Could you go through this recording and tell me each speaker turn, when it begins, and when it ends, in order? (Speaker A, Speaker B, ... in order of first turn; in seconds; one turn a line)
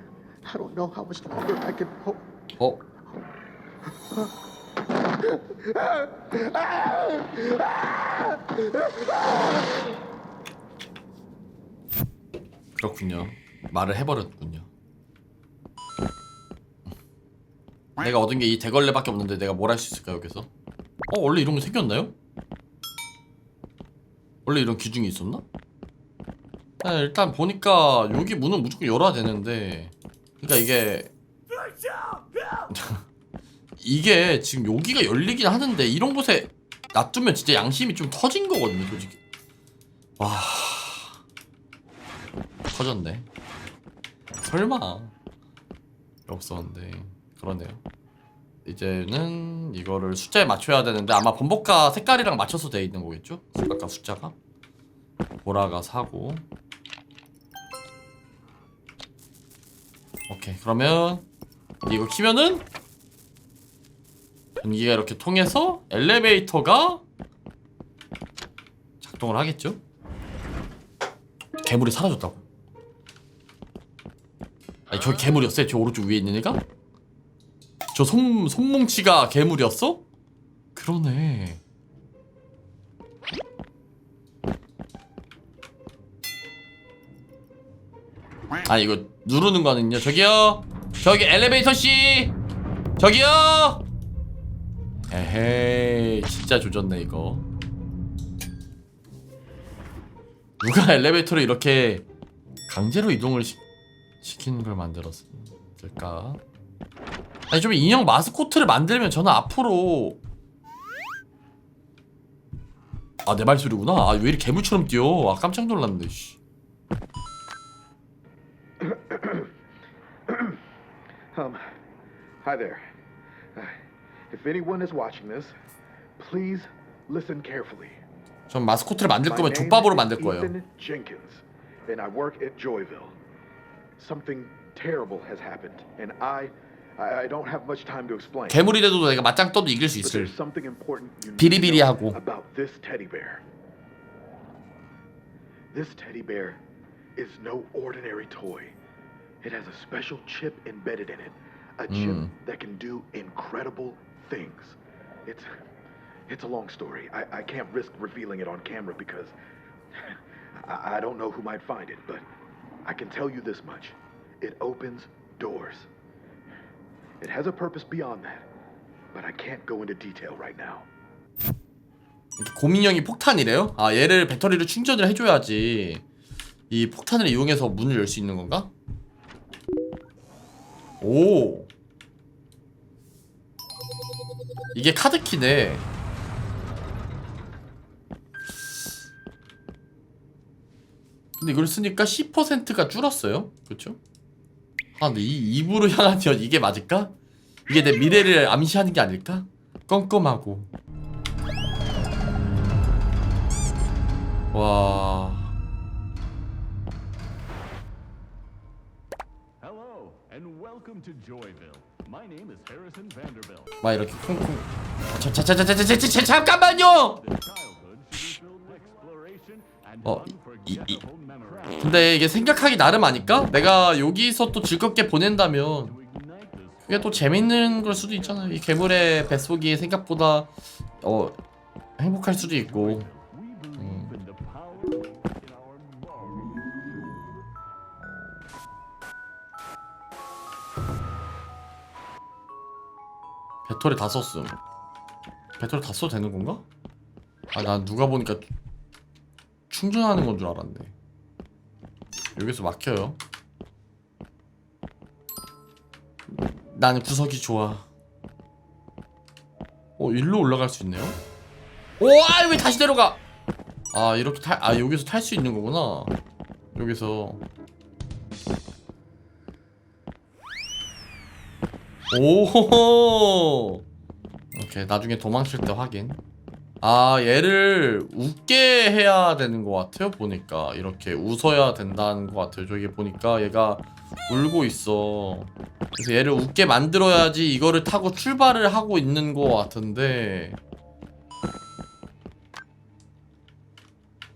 Speaker A: 0.5-2.2
Speaker B: 2.6-2.8
Speaker A: 5.2-9.7
Speaker B: 12.8-14.7
Speaker B: 18.0-20.5
Speaker B: 21.1-22.1
Speaker B: 24.4-25.4
Speaker B: 26.8-31.1
Speaker B: 32.7-33.0
Speaker B: 33.8-39.2
Speaker B: 40.2-41.2
Speaker B: 42.7-43.3
Speaker B: 44.4-45.1
Speaker B: 46.3-47.8
Speaker B: 48.6-54.3
Speaker B: 55.4-56.5
Speaker B: 60.3-61.2
Speaker B: 61.8-62.6
Speaker B: 64.6-67.0
Speaker B: 69.0-69.8
Speaker B: 71.6-72.4
Speaker B: 74.9-76.6
Speaker B: 77.9-80.0
Speaker B: 80.7-81.6
Speaker B: 88.6-92.3
Speaker B: 93.0-93.8
Speaker B: 95.1-97.5
Speaker B: 100.6-102.0
Speaker B: 102.7-103.6
Speaker B: 104.2-106.4
Speaker B: 107.5-110.2
Speaker B: 113.2-116.4
Speaker A: 118.8-119.5
Speaker A: 120.3-120.6
Speaker A: 121.3-121.6
Speaker A: 122.4-122.8
Speaker A: 124.3-125.5
Speaker A: 126.2-128.0
Speaker B: 128.5-130.5
Speaker A: 129.2-133.2
Speaker A: 134.0-138.7
Speaker B: 138.5-140.3
Speaker A: 140.0-143.4
Speaker B: 141.4-142.2
Speaker A: 145.7-146.6
Speaker A: 147.2-148.7
Speaker A: 149.4-155.5
Speaker B: 151.9-152.3
Speaker A: 156.3-159.3
Speaker A: 159.9-162.2
Speaker A: 162.8-165.9
Speaker A: 167.2-168.4
Speaker A: 169.1-170.9
Speaker B: 172.4-176.0
Speaker B: 176.7-178.7
Speaker B: 181.0-181.7
Speaker B: 184.7-185.8
Speaker B: 191.4-194.0
Speaker B: 195.0-197.1
Speaker B: 197.7-200.7
Speaker B: 204.5-205.5
Speaker C: 209.6-213.6
Speaker B: 213.8-217.2
Speaker C: 217.3-219.4
Speaker B: 220.0-221.0
Speaker B: 221.7-226.0
Speaker B: 226.8-231.4
Speaker B: 232.0-233.1
Speaker B: 233.8-234.2
Speaker C: 234.2-236.5
Speaker B: 243.7-244.6
Speaker B: 245.6-246.6
Speaker B: 247.5-248.5
Speaker B: 249.7-250.9
Speaker B: 252.3-253.2
Speaker B: 256.3-257.9
Speaker B: 260.0-261.2
Speaker B: 262.0-263.2
Speaker B: 263.9-266.1
Speaker B: 266.7-267.4
Speaker B: 272.1-273.8
Speaker B: 274.5-276.2
Speaker B: 276.8-290.6